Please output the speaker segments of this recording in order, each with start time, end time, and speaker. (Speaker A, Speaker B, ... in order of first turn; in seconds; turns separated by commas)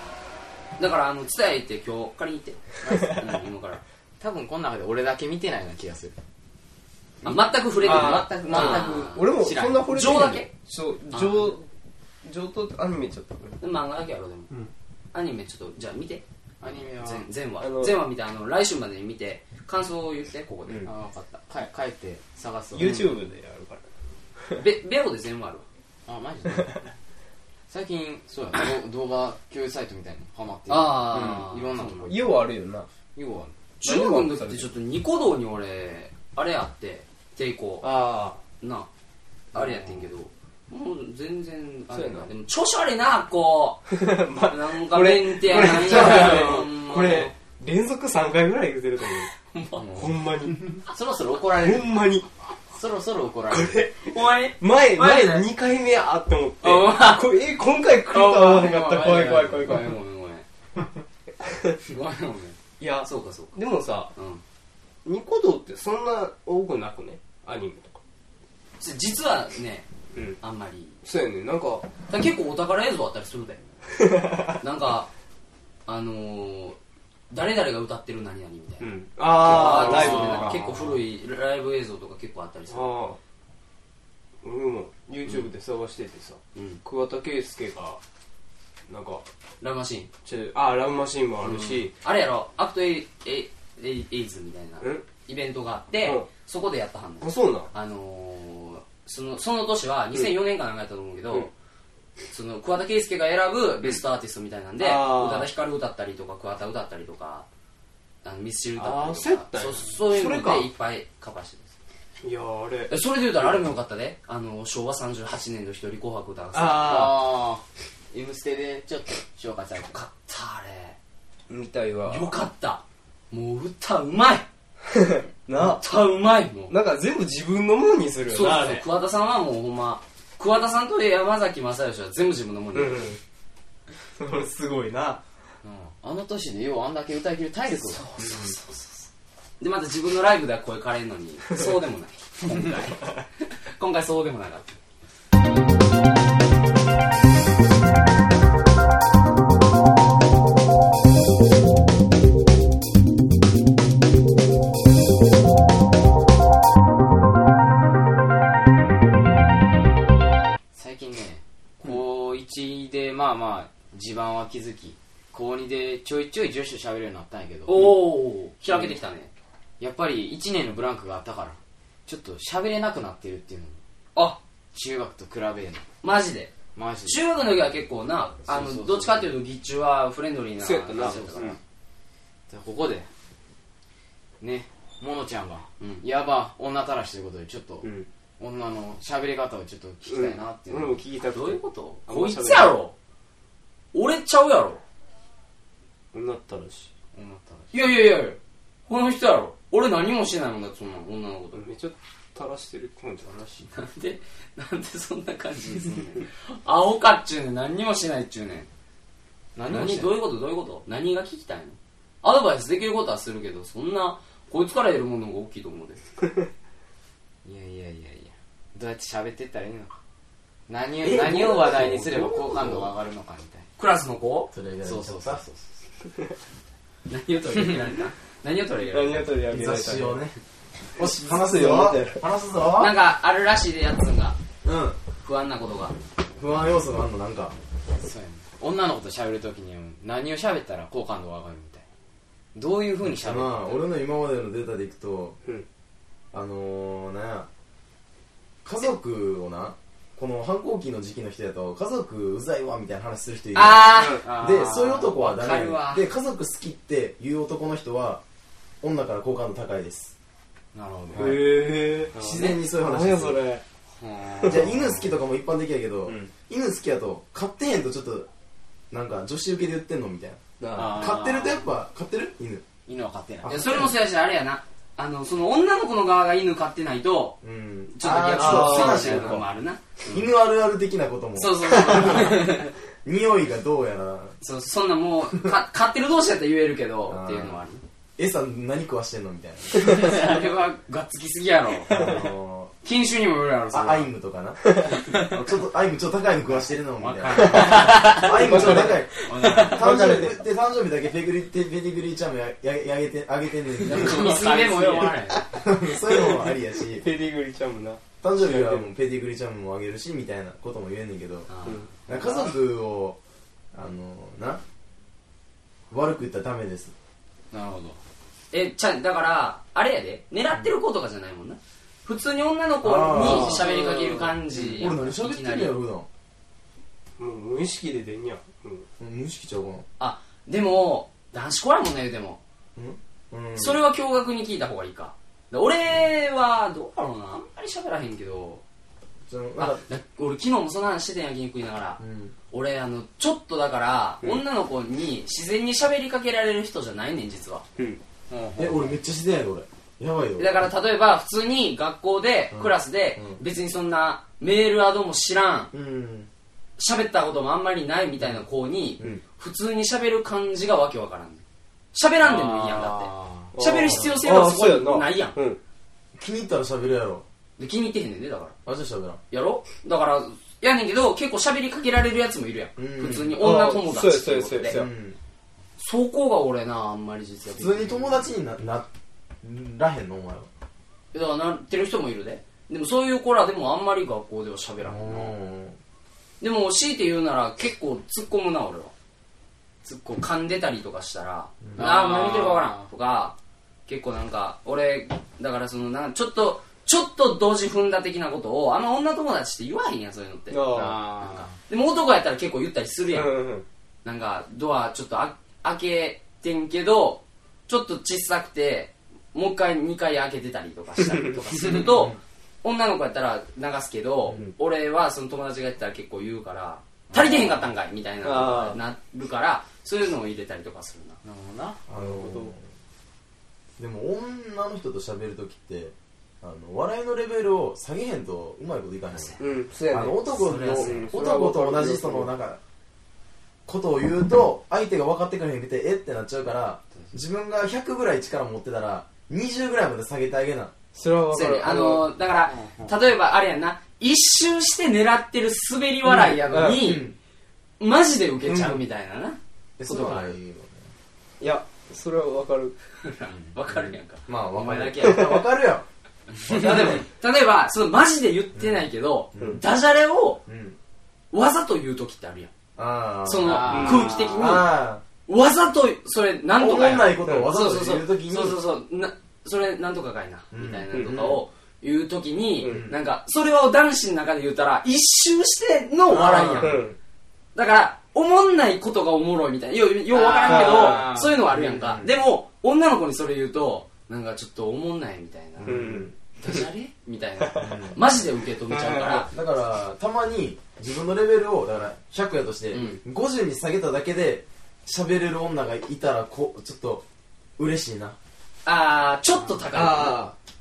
Speaker A: 0.8-3.8, Speaker B: 2.8-3.3, Speaker B: 4.2-6.1, Speaker B: 7.2-10.2, Speaker A: 7.2-10.5, Speaker C: 7.8-11.7, Speaker C: 12.2-13.6, Speaker A: 13.6-14.5, Speaker A: 15.1-20.9, Speaker B: 16.6-17.2, Speaker C: 17.6-18.0, Speaker B: 20.8-23.1, Speaker C: 22.7-23.8, Speaker A: 24.6-25.6, Speaker B: 26.1-26.9, Speaker B: 27.7-32.3, Speaker A: 30.7-32.1, Speaker C: 31.1-32.9, Speaker B: 33.1-33.5, Speaker A: 33.8-37.9, Speaker C: 33.8-34.7, Speaker C: 37.8-38.4, Speaker A: 38.6-38.9, Speaker A: 39.5-47.3, Speaker C: 39.6-39.9, Speaker C: 41.9-42.3, Speaker C: 43.9-50.8, Speaker A: 49.4-50.1, Speaker B: 50.9-52.1, Speaker C: 51.5-52.3, Speaker B: 52.7-53.9, Speaker C: 53.5-60.0, Speaker A: 54.0-55.5, Speaker A: 56.6-57.5, Speaker A: 58.0-60.4, Speaker C: 61.4-61.8, Speaker A: 61.9-63.5, Speaker C: 62.8-64.1, Speaker A: 64.1-64.4, Speaker C: 65.0-68.0, Speaker A: 68.8-69.8, Speaker A: 70.4-71.0, Speaker C: 71.0-71.9, Speaker A: 72.1-73.6, Speaker C: 74.0-74.5, Speaker A: 74.6-75.1, Speaker A: 75.8-76.8, Speaker A: 77.3-83.0, Speaker C: 78.8-80.7, Speaker B: 79.5-80.6, Speaker C: 82.7-83.2, Speaker C: 84.4-88.0, Speaker A: 86.5-86.8, Speaker C: 88.9-89.2, Speaker A: 89.6-90.1, Speaker C: 90.2-91.9, Speaker A: 91.4-101.5, Speaker C: 94.8-95.0, Speaker C: 97.2-97.7, Speaker A: 102.3-107.5, Speaker C: 104.8-105.5, Speaker A: 108.2-111.8, Speaker C: 108.8-110.7, Speaker C: 112.2-113.5, Speaker A: 112.9-117.2, Speaker C: 116.5-117.3, Speaker B: 116.8-120.0, Speaker A: 119.9-121.0, Speaker C: 121.5-122.3, Speaker A: 122.0-124.5, Speaker C: 124.9-125.8, Speaker A: 125.6-126.8, Speaker C: 126.7-128.8, Speaker A: 128.3-133.1, Speaker C: 132.7-133.2, Speaker C: 134.2-135.2, Speaker B: 135.6-138.0, Speaker A: 137.7-139.1, Speaker C: 138.2-138.6, Speaker A: 139.6-144.8, Speaker B: 160.7-168.0, Speaker A: 167.7-169.3, Speaker B: 169.8-173.8, Speaker A: 174.2-174.4, Speaker B: 174.7-175.8, Speaker A: 176.0-181.6, Speaker B: 176.7-177.2, Speaker B: 178.5-179.3, Speaker C: 180.6-181.6, Speaker B: 180.9-181.6, Speaker B: 182.5-183.1, Speaker B: 184.4-191.0, Speaker C: 187.8-188.1, Speaker C: 190.1-192.8, Speaker A: 191.3-192.9, Speaker A: 193.9-194.8, Speaker C: 196.1-196.9, Speaker B: 197.1-197.7, Speaker A: 197.7-201.6, Speaker C: 201.5-203.7, Speaker A: 203.7-208.7, Speaker B: 209.5-210.2, Speaker A: 209.7-216.0, Speaker B: 217.4-220.0, Speaker B: 220.7-223.7, Speaker A: 221.0-222.9, Speaker A: 223.8-224.5, Speaker D: 224.5-225.4, Speaker B: 224.8-225.7, Speaker A: 227.1-229.3, Speaker C: 228.9-230.2, Speaker D: 229.5-230.4, Speaker D: 230.9-232.9, Speaker C: 231.0-232.2, Speaker A: 232.8-234.4, Speaker D: 234.6-235.0, Speaker A: 235.2-235.9, Speaker D: 236.4-237.5, Speaker B: 238.0-241.8, Speaker B: 242.5-243.8, Speaker D: 243.0-245.3, Speaker D: 246.3-247.5, Speaker D: 248.6-258.2, Speaker A: 253.5-254.3, Speaker C: 253.9-254.2, Speaker B: 254.2-255.6, Speaker A: 255.2-256.0, Speaker D: 258.8-260.1, Speaker B: 260.7-261.4, Speaker D: 261.1-263.4, Speaker C: 261.1-263.6, Speaker B: 263.9-265.1, Speaker C: 264.3-264.6, Speaker D: 264.4-268.3, Speaker C: 266.1-266.3, Speaker D: 268.9-272.6, Speaker C: 270.6-271.1, Speaker B: 270.7-271.7, Speaker B: 272.9-273.6, Speaker D: 273.4-273.9, Speaker A: 273.5-277.4, Speaker D: 277.4-279.5, Speaker A: 277.9-280.3, Speaker C: 278.3-279.4, Speaker D: 280.1-284.4, Speaker A: 281.4-282.7, Speaker A: 284.4-287.8, Speaker D: 287.1-287.6, Speaker D: 288.2-290.3, Speaker A: 289.8-292.1, Speaker D: 291.9-292.7, Speaker A: 292.8-294.1, Speaker D: 293.7-304.6, Speaker C: 294.7-294.9, Speaker A: 297.0-298.2, Speaker B: 297.1-299.8, Speaker C: 297.4-300.3, Speaker A: 299.2-299.7, Speaker A: 303.8-305.5, Speaker B: 303.9-305.2, Speaker D: 305.5-307.1, Speaker C: 306.1-308.9, Speaker D: 308.2-311.5, Speaker A: 311.5-311.9, Speaker C: 311.6-312.0, Speaker D: 312.1-313.2, Speaker D: 313.7-314.6, Speaker D: 315.9-316.9, Speaker B: 317.5-318.0, Speaker A: 318.5-325.7, Speaker D: 322.8-323.6, Speaker C: 323.1-324.3, Speaker B: 323.2-324.1, Speaker D: 324.6-326.1, Speaker C: 327.2-328.9, Speaker D: 329.0-329.8, Speaker A: 330.0-332.4, Speaker D: 332.8-333.8, Speaker A: 333.6-338.6, Speaker D: 339.3-339.8, Speaker A: 339.6-342.0, Speaker D: 342.0-342.3, Speaker A: 342.5-347.6, Speaker B: 348.3-349.0, Speaker D: 348.6-350.7, Speaker A: 350.4-355.7, Speaker D: 352.5-353.4, Speaker D: 355.7-356.3, Speaker A: 356.8-365.4, Speaker B: 362.2-363.5, Speaker C: 363.5-365.6, Speaker D: 366.1-367.2, Speaker A: 367.6-368.5, Speaker D: 368.6-369.2, Speaker A: 369.3-374.8, Speaker D: 372.8-373.4, Speaker C: 373.4-374.9, Speaker D: 374.7-375.2, Speaker A: 375.8-378.3, Speaker D: 377.6-378.9, Speaker D: 379.4-380.5, Speaker A: 381.1-385.3, Speaker D: 384.8-385.8, Speaker A: 386.4-388.9, Speaker A: 389.8-393.4, Speaker D: 391.6-391.9, Speaker B: 391.7-392.8, Speaker A: 393.9-403.5, Speaker C: 400.5-401.0, Speaker B: 400.7-401.5, Speaker C: 403.1-403.6, Speaker A: 404.0-421.2, Speaker D: 411.7-412.1, Speaker B: 417.1-417.6, Speaker C: 418.2-418.8, Speaker B: 421.2-421.8, Speaker D: 421.9-422.6, Speaker C: 421.9-422.5, Speaker D: 423.8-432.6, Speaker A: 429.1-429.4, Speaker C: 429.4-432.3, Speaker A: 430.3-431.1, Speaker D: 433.7-440.7, Speaker C: 440.9-442.1, Speaker A: 441.3-447.1, Speaker B: 442.5-442.8, Speaker D: 446.1-447.1, Speaker C: 446.5-447.0, Speaker A: 447.8-450.4, Speaker D: 448.4-448.8, Speaker D: 449.8-450.9, Speaker C: 451.4-452.8, Speaker A: 453.0-455.4, Speaker D: 453.7-455.9, Speaker D: 456.4-457.0, Speaker A: 456.5-460.4, Speaker D: 458.5-459.6, Speaker D: 460.4-460.8, Speaker A: 461.3-462.5, Speaker D: 462.8-465.0, Speaker A: 463.2-476.9, Speaker B: 463.4-464.6, Speaker C: 463.6-464.1, Speaker D: 466.6-468.6, Speaker D: 470.5-471.4, Speaker C: 472.6-472.9, Speaker D: 472.6-473.0, Speaker D: 476.1-476.8, Speaker C: 476.6-476.9, Speaker A: 477.5-489.3, Speaker C: 480.1-481.4, Speaker B: 480.2-481.3, Speaker D: 481.5-482.1, Speaker D: 485.6-486.1, Speaker C: 485.6-486.6, Speaker C: 487.4-487.8, Speaker D: 487.6-488.0, Speaker C: 488.7-489.3, Speaker D: 489.3-497.0, Speaker A: 492.7-493.0, Speaker D: 497.6-498.2, Speaker A: 498.6-500.3, Speaker C: 499.7-500.3